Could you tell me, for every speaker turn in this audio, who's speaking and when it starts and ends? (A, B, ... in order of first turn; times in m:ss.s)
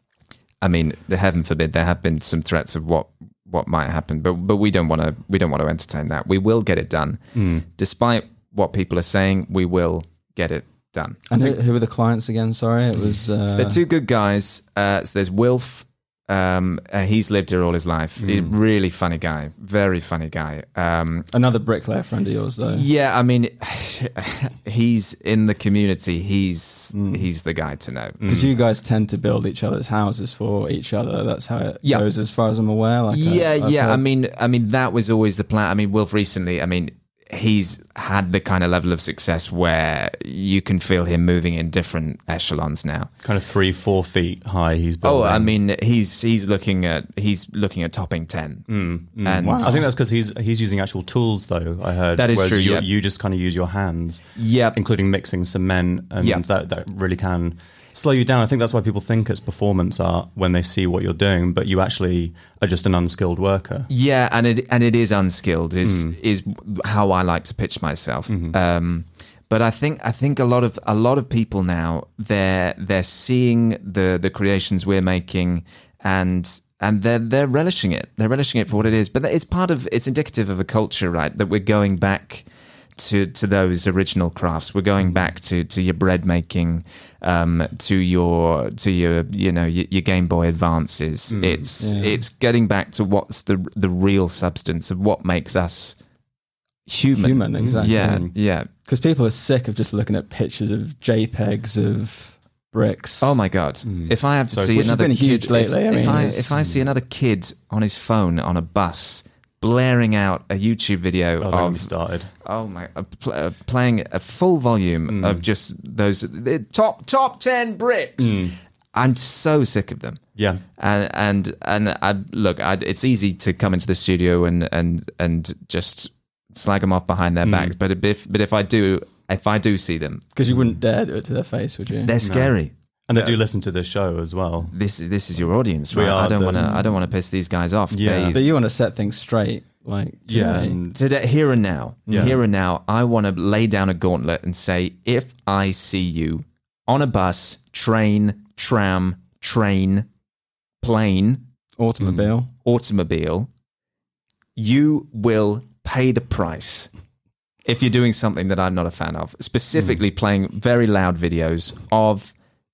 0:00.6-0:11.2 A
0:07.4-0:07.7 B
0:11.3-0:13.8 C
0:13.5-0:21.3 A
0:18.2-0:18.6 B
0:21.3-0:22.9 C
0:22.7-0:28.2 A
0:26.9-0:27.3 C
0:28.2-0:28.5 B
0:28.2-0:34.0 C
0:33.1-0:43.1 A
0:43.2-0:45.5 B
0:45.0-0:48.7 A
0:48.7-1:03.9 B
0:49.2-0:49.9 A
0:49.4-0:49.9 C
0:52.2-0:52.9 A
0:54.4-0:54.8 A
1:03.9-1:36.0 A
1:05.8-1:06.2 B
1:08.3-1:08.6 B
1:31.3-1:31.7 B
1:31.8-1:32.2 C
1:36.9-1:38.7 A
1:37.2-1:38.3 C
1:37.6-1:38.3 B
1:38.9-1:43.4 C
1:43.2-1:51.9 A
1:43.9-1:45.0 B
1:44.7-1:46.6 C
1:51.4-1:52.3 B
1:52.4-1:58.4 A
1:55.1-1:55.4 B
1:58.2-1:58.6 B
1:58.9-2:00.2 A
2:00.4-2:00.6 B
2:00.8-2:10.2 A
2:07.4-2:07.8 B
2:10.4-2:12.2 C
2:10.5-2:10.7 B
2:12.0-2:13.4 A
2:12.2-2:12.6 B
2:13.1-2:14.8 B
2:14.7-2:18.4 A
2:15.9-2:16.9 B
2:17.9-2:18.4 B
2:18.3-2:20.8 C
2:20.3-2:21.0 B
2:20.9-2:30.1 A
2:22.1-2:22.4 B
2:30.8-2:31.5 A
2:31.8-2:32.5 C
2:32.6-2:33.5 A
2:34.6-2:36.9 A
2:37.6-2:42.3 A